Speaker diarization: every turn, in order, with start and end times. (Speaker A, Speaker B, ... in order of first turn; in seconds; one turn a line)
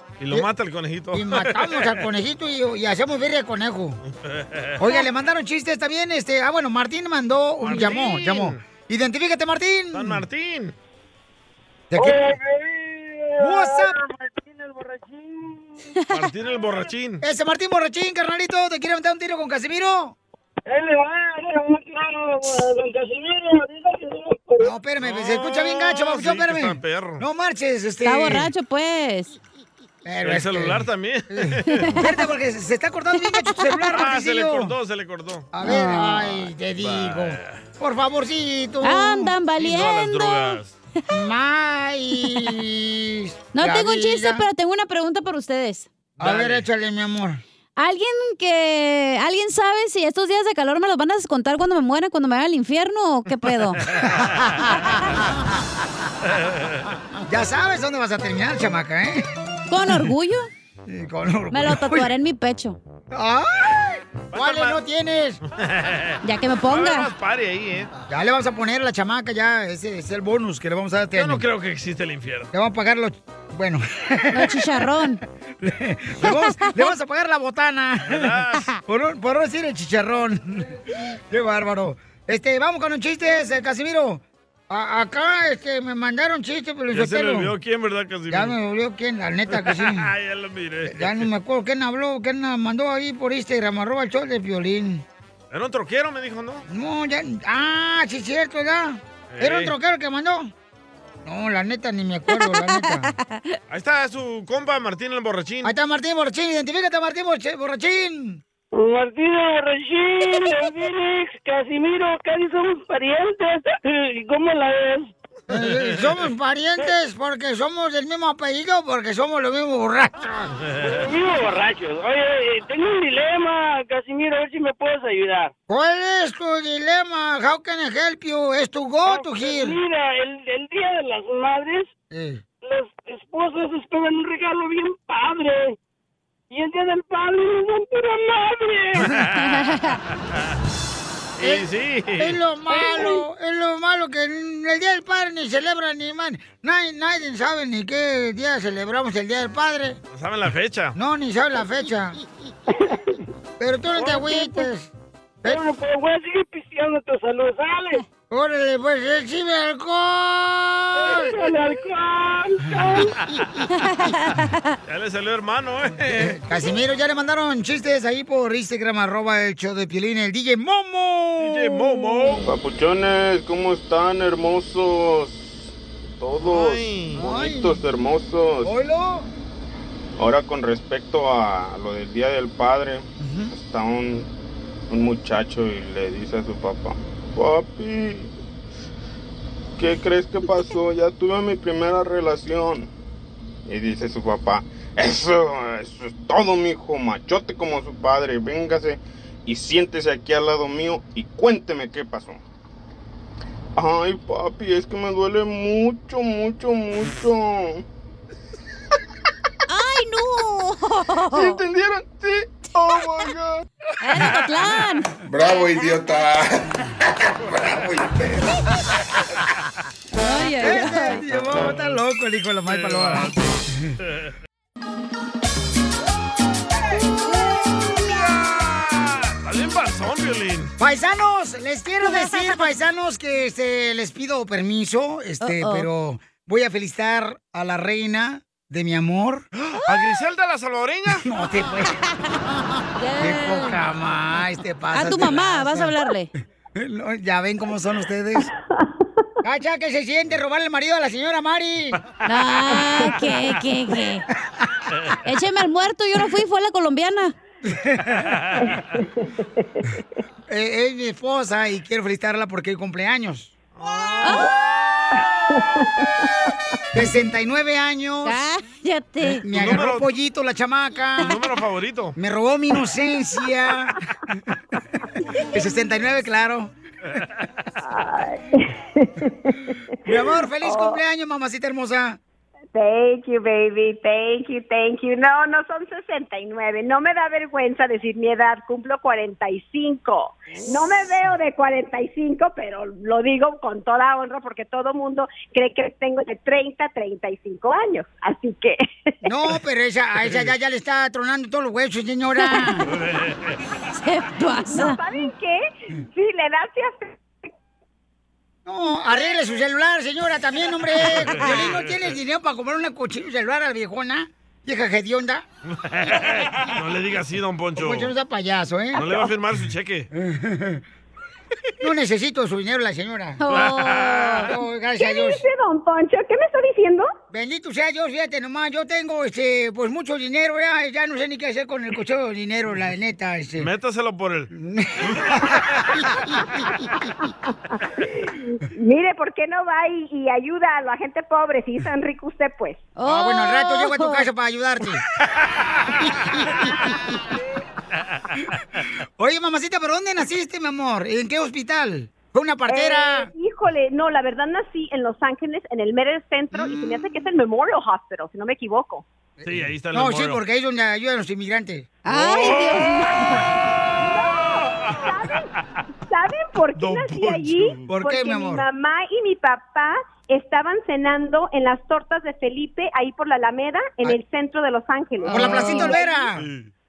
Speaker A: 0.2-2.0
Speaker B: 1.1-4.0
Speaker A: 4.2-4.8
Speaker B: 4.8-10.2
Speaker A: 7.6-8.6
Speaker A: 9.9-10.8
Speaker B: 11.9-12.4
Speaker C: 12.0-15.7
Speaker B: 13.4-14.0
Speaker A: 16.1-17.2
Speaker B: 17.2-20.1
Speaker C: 20.7-24.7
Speaker B: 24.6-28.5
Speaker A: 25.0-27.2
Speaker D: 28.0-29.4
Speaker B: 30.1-34.7
Speaker A: 30.2-32.0
Speaker D: 33.2-33.8
Speaker A: 33.9-35.5
Speaker B: 35.5-39.3
Speaker D: 35.6-36.2
Speaker A: 36.8-37.6
Speaker D: 38.8-40.6
Speaker A: 39.6-40.7
Speaker B: 41.1-44.5
Speaker D: 43.5-45.9
Speaker B: 46.2-47.4
Speaker A: 46.2-46.6
Speaker D: 47.8-53.9
Speaker B: 54.1-54.9
Speaker A: 56.6-56.9
Speaker B: 57.3-59.2
Speaker D: 59.7-60.5
Speaker B: 60.9-62.1
Speaker D: 61.5-62.8
Speaker B: 63.1-65.4
Speaker A: 64.3-64.8
Speaker A: 65.5-67.9
Speaker D: 66.2-67.1
Speaker B: 68.1-71.4
Speaker A: 71.2-72.5
Speaker B: 72.5-74.6
Speaker D: 74.3-75.2
Speaker B: 75.6-80.8
Speaker D: 76.3-76.8
Speaker A: 78.1-78.7
Speaker B: 81.3-87.5
Speaker A: 86.9-88.6
Speaker B: 88.3-90.1
Speaker A: 89.5-91.3
Speaker B: 90.9-95.0
Speaker A: 95.5-96.7
Speaker B: 96.7-100.5
Speaker A: 99.3-99.7
Speaker B: 101.2-103.1
Speaker D: 102.3-103.5
Speaker A: 103.7-105.7
Speaker B: 105.6-108.4
Speaker C: 108.7-115.1
Speaker B: 115.5-120.5
Speaker A: 115.6-116.1
Speaker A: 120.7-121.1
Speaker C: 120.8-125.5
Speaker B: 125.7-129.8
Speaker C: 129.1-131.9
Speaker B: 132.1-132.4
Speaker C: 132.6-135.8
Speaker C: 136.5-139.0
Speaker A: 138.9-139.7
Speaker D: 139.6-139.9
Speaker A: 141.4-142.4
Speaker B: 141.4-141.7
Speaker B: 142.2-150.0
Speaker A: 150.1-151.0
Speaker B: 151.0-152.2
Speaker B: 153.6-154.9
Speaker C: 154.2-154.5
Speaker C: 155.4-158.0
Speaker B: 158.3-161.4
Speaker C: 161.0-163.1
Speaker D: 163.8-164.7
Speaker A: 164.9-166.4
Speaker B: 166.2-172.4
Speaker A: 171.4-172.5
Speaker E: 172.5-178.8
Speaker A: 176.4-177.2
Speaker B: 177.2-177.8
Speaker B: 178.6-179.3
Speaker E: 180.2-184.3
Speaker B: 183.2-183.5
Speaker E: 184.9-188.3
Speaker E: 189.8-192.9
Speaker E: 193.7-202.4
Speaker E: 203.8-207.8
Speaker D: 209.7-211.6
Speaker E: 211.3-213.6
Speaker D: 214.0-215.1
Speaker F: 215.2-216.8
Speaker F: 217.4-218.5
Speaker D: 220.1-221.3
Speaker B: 220.6-223.9
Speaker A: 222.7-223.4
Speaker A: 228.7-230.7
Speaker B: 230.8-239.4
Speaker D: 232.1-232.6
Speaker D: 235.4-235.9
Speaker A: 239.6-241.3
Speaker B: 241.2-242.0
Speaker D: 243.0-243.8
Speaker B: 243.2-245.9
Speaker D: 244.9-246.3
Speaker B: 246.8-248.5
Speaker B: 249.4-252.0
Speaker D: 252.2-254.2
Speaker D: 255.2-257.4
Speaker B: 257.7-258.3
Speaker A: 258.3-258.7
Speaker G: 259.0-260.0
Speaker B: 260.5-263.5
Speaker A: 263.8-265.7
Speaker D: 264.2-264.5
Speaker G: 265.1-266.1
Speaker B: 266.9-268.4
Speaker D: 268.2-269.4
Speaker B: 269.4-271.3
Speaker A: 269.5-270.1
Speaker A: 271.2-272.2
Speaker B: 272.2-274.0
Speaker B: 275.5-276.7
Speaker G: 277.8-281.0
Speaker B: 280.1-282.2
Speaker G: 282.7-299.1
Speaker B: 299.2-302.9
Speaker A: 300.3-300.5
Speaker D: 302.4-302.8
Speaker A: 302.9-303.6
Speaker D: 304.0-305.0
Speaker G: 304.7-307.2
Speaker B: 308.7-315.4
Speaker A: 311.1-312.1
Speaker A: 315.7-318.1
Speaker B: 317.8-319.2
Speaker A: 318.9-320.1
Speaker B: 320.1-320.8
Speaker B: 321.8-323.4
Speaker D: 323.4-324.5
Speaker A: 323.5-324.5
Speaker B: 324.4-325.4
Speaker G: 325.0-327.1
Speaker B: 327.3-333.7
Speaker A: 333.6-334.5
Speaker B: 334.6-336.4
Speaker G: 337.7-342.8
Speaker D: 343.0-344.3
Speaker B: 343.1-345.0
Speaker B: 346.0-346.9
Speaker B: 349.2-353.3
Speaker G: 352.7-359.1
Speaker B: 356.5-357.1
Speaker B: 359.4-362.5
Speaker A: 359.4-360.4
Speaker D: 362.1-363.2
Speaker G: 362.5-365.5
Speaker A: 364.6-365.1
Speaker G: 366.1-376.3
Speaker A: 366.8-367.8
Speaker B: 367.9-368.6
Speaker D: 375.2-376.0
Speaker B: 375.3-376.4
Speaker A: 376.4-376.6